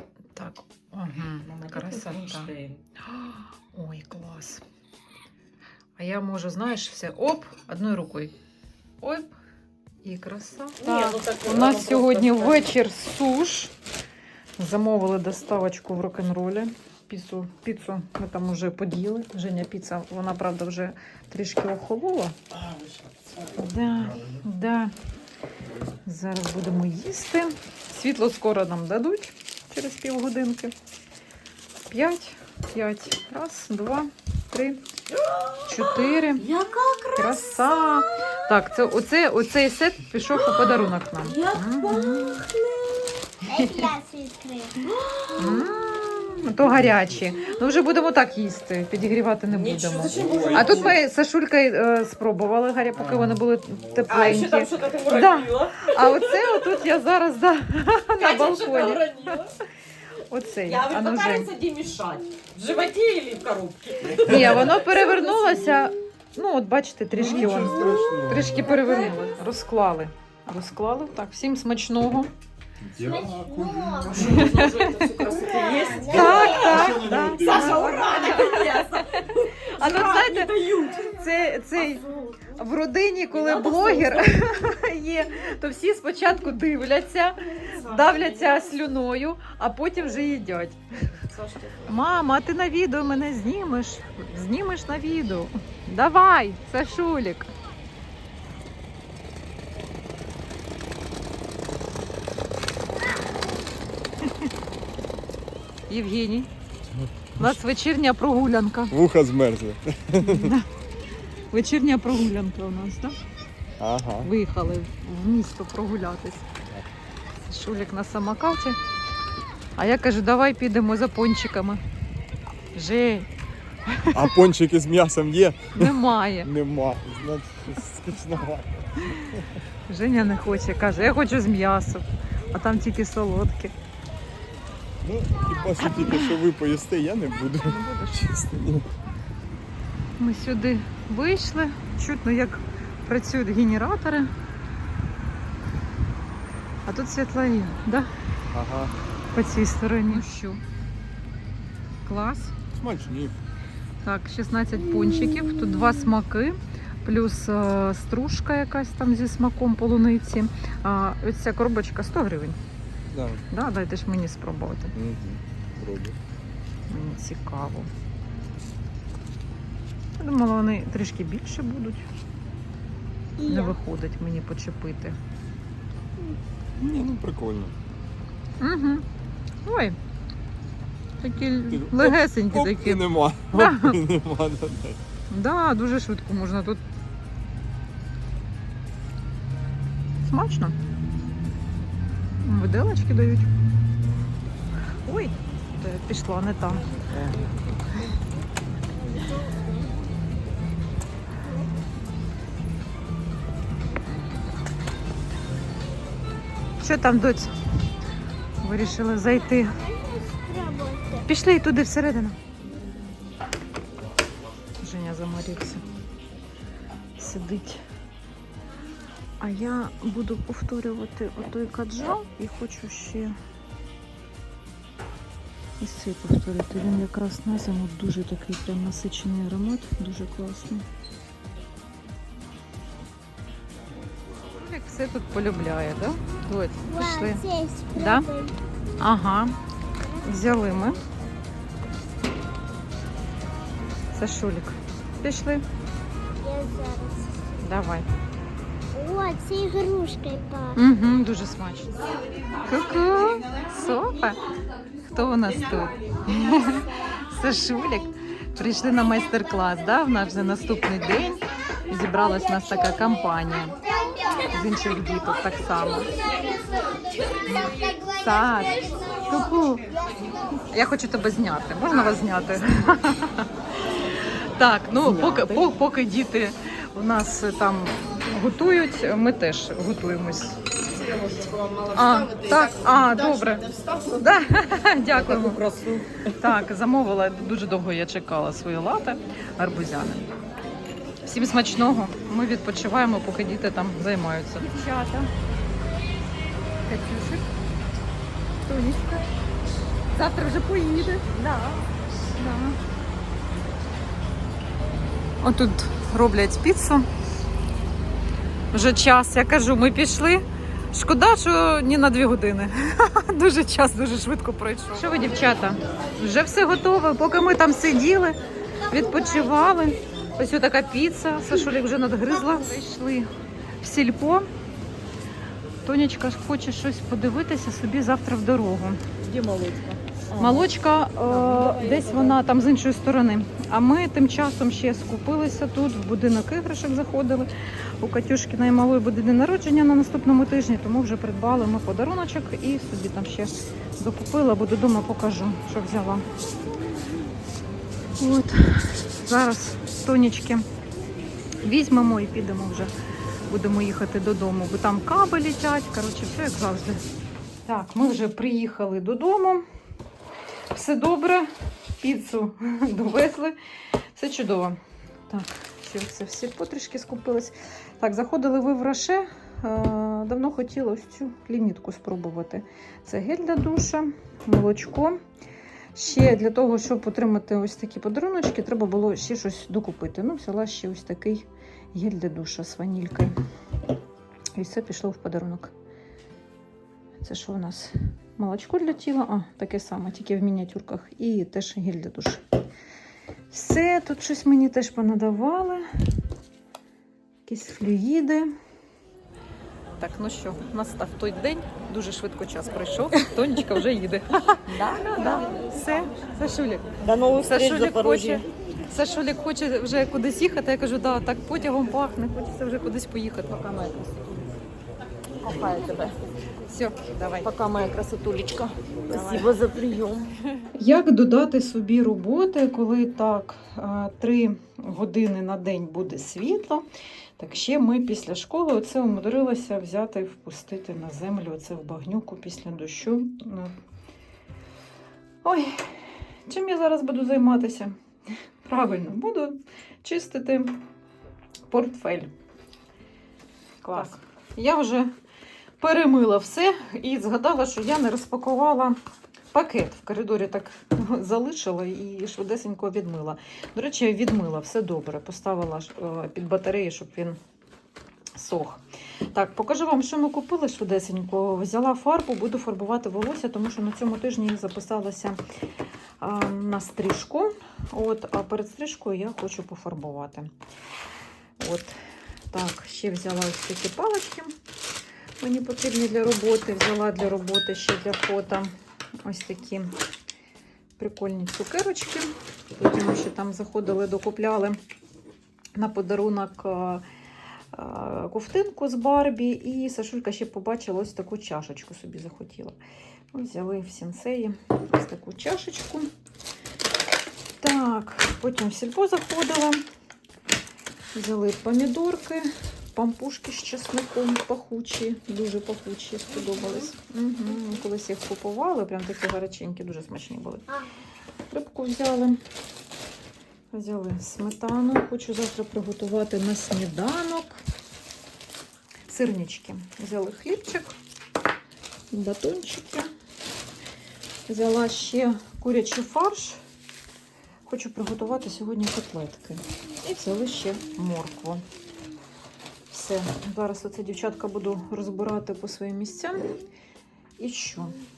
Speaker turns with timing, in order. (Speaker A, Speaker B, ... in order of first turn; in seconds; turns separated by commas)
Speaker A: 0.3-2.5, Speaker B: 1.4-2.8, Speaker A: 3.0-4.6, Speaker A: 6.0-8.3, Speaker A: 9.0-9.3, Speaker A: 10.0-13.7, Speaker B: 10.8-12.7, Speaker A: 14.6-22.4, Speaker C: 22.5-24.4, Speaker A: 23.6-24.9, Speaker A: 26.1-30.7, Speaker A: 31.9-34.8, Speaker B: 35.1-38.4, Speaker A: 35.7-36.5, Speaker A: 37.1-42.5, Speaker B: 40.3-43.2, Speaker D: 43.4-44.8, Speaker A: 43.5-43.9, Speaker B: 44.8-45.7, Speaker A: 45.4-59.3, Speaker B: 49.5-51.0, Speaker C: 50.0-51.0, Speaker C: 53.0-53.3, Speaker B: 54.1-56.8, Speaker B: 58.2-59.5, Speaker A: 60.3-61.5, Speaker B: 60.6-65.9, Speaker A: 64.2-72.3, Speaker C: 67.2-68.7, Speaker B: 67.2-68.2, Speaker C: 72.8-74.1, Speaker D: 73.0-74.4, Speaker B: 74.0-82.6, Speaker A: 74.2-75.3, Speaker D: 75.2-77.1, Speaker A: 76.1-79.0, Speaker C: 76.3-77.9, Speaker A: 79.8-90.8, Speaker B: 83.3-84.4, Speaker B: 87.6-88.9, Speaker B: 91.1-92.2, Speaker A: 91.9-97.5, Speaker A: 104.2-104.5, Speaker A: 105.9-106.5, Speaker C: 106.9-107.6, Speaker A: 107.4-108.9, Speaker C: 108.9-110.5, Speaker A: 110.2-110.7, Speaker A: 111.5-113.2, Speaker C: 113.8-114.3, Speaker A: 114.2-116.5, Speaker A: 117.4-118.8, Speaker A: 119.8-121.8, Speaker A: 122.7-123.3, Speaker A: 123.9-124.3, Speaker C: 124.1-129.6, Speaker A: 125.8-126.5, Speaker A: 129.9-133.7, Speaker C: 135.0-138.9, Speaker A: 137.6-138.3, Speaker A: 140.2-144.3, Speaker A: 146.9-148.1, Speaker C: 148.5-148.9, Speaker A: 149.3-150.6, Speaker A: 152.0-152.6, Speaker C: 152.8-153.4, Speaker A: 154.0-162.6, Speaker D: 155.1-155.9, Speaker C: 163.1-163.4, Speaker A: 163.5-164.9, Speaker C: 164.9-166.2, Speaker A: 166.9-167.9, Speaker A: 170.2-172.1, Speaker D: 173.4-173.8, Speaker A: 173.4-175.2, Speaker C: 176.8-177.8, Speaker A: 176.8-177.2, Speaker A: 178.6-179.1, Speaker A: 179.7-180.0, Speaker A: 181.2-184.0, Speaker C: 181.7-185.0, Speaker A: 185.3-186.8, Speaker A: 190.2-190.8, Speaker A: 192.4-193.5, Speaker A: 195.1-196.8, Speaker D: 196.7-198.4, Speaker D: 198.9-200.0, Speaker D: 201.4-201.7, Speaker A: 206.8-207.5, Speaker A: 208.6-209.8, Speaker D: 209.1-211.3, Speaker A: 211.3-212.4, Speaker A: 214.8-215.8, Speaker A: 217.2-217.8, Speaker A: 219.4-223.4, Speaker A: 225.8-230.8, Speaker A: 234.5-237.4, Speaker D: 236.9-238.6, Speaker A: 237.9-238.3, Speaker A: 239.0-239.6, Speaker D: 240.0-240.9, Speaker A: 240.2-241.0, Speaker A: 244.1-245.6, Speaker D: 246.4-247.6, Speaker A: 247.6-248.1, Speaker D: 248.9-250.8, Speaker A: 250.8-252.0, Speaker A: 252.7-254.4, Speaker A: 255.1-263.8, Speaker D: 256.3-257.8, Speaker D: 262.4-263.1, Speaker D: 263.8-264.6, Speaker A: 264.5-266.1, Speaker D: 265.8-270.6, Speaker A: 267.5-269.9, Speaker A: 270.7-280.6, Speaker B: 275.0-275.6, Speaker A: 281.9-285.6, Speaker B: 285.1-286.6, Speaker A: 286.4-290.3, Speaker A: 291.2-295.3, Speaker A: 296.9-297.5, Speaker A: 298.7-299.3, Speaker A: 300.1-302.8, Speaker A: 305.4-307.1, Speaker A: 308.7-323.3, Speaker A: 323.8-324.5, Speaker A: 325.9-329.0, Speaker B: 329.2-330.7, Speaker A: 330.4-346.3, Speaker B: 331.3-332.4, Speaker A: 348.2-350.7, Speaker A: 351.6-352.9, Speaker A: 353.5-357.0, Speaker A: 357.7-359.6, Speaker A: 360.7-363.6, Speaker A: 364.1-375.2, Speaker A: 375.9-383.3, Speaker A: 384.6-385.7, Speaker A: 387.2-392.4, Speaker A: 393.5-395.9, Speaker A: 397.5-398.5, Speaker A: 400.0-406.9, Speaker B: 404.7-405.6, Speaker B: 407.0-408.5, Speaker A: 407.4-414.5, Speaker B: 415.4-416.1, Speaker A: 416.7-417.5, Speaker B: 417.4-420.3, Speaker A: 419.1-419.5, Speaker A: 420.7-426.9, Speaker A: 427.4-433.7, Speaker A: 435.4-437.9, Speaker A: 438.6-440.8, Speaker A: 441.7-442.3, Speaker A: 443.8-445.1, Speaker A: 445.8-449.0, Speaker A: 449.5-457.4, Speaker A: 458.4-458.8, Speaker A: 459.3-465.4, Speaker A: 466.2-470.5, Speaker A: 471.6-471.9, Speaker A: 472.5-474.6, Speaker A: 475.4-478.7, Speaker A: 479.2-479.9, Speaker A: 481.0-484.8, Speaker A: 485.8-487.0, Speaker A: 487.7-492.8, Speaker A: 493.3-496.1, Speaker A: 497.6-499.8, Speaker A: 501.1-510.6, Speaker D: 506.5-506.8, Speaker A: 511.5-512.4, Speaker A: 513.7-517.6, Speaker A: 519.1-521.0, Speaker A: 522.1-523.1, Speaker A: 524.5-526.6, Speaker A: 527.7-531.6, Speaker A: 532.9-536.6, Speaker A: 537.4-538.0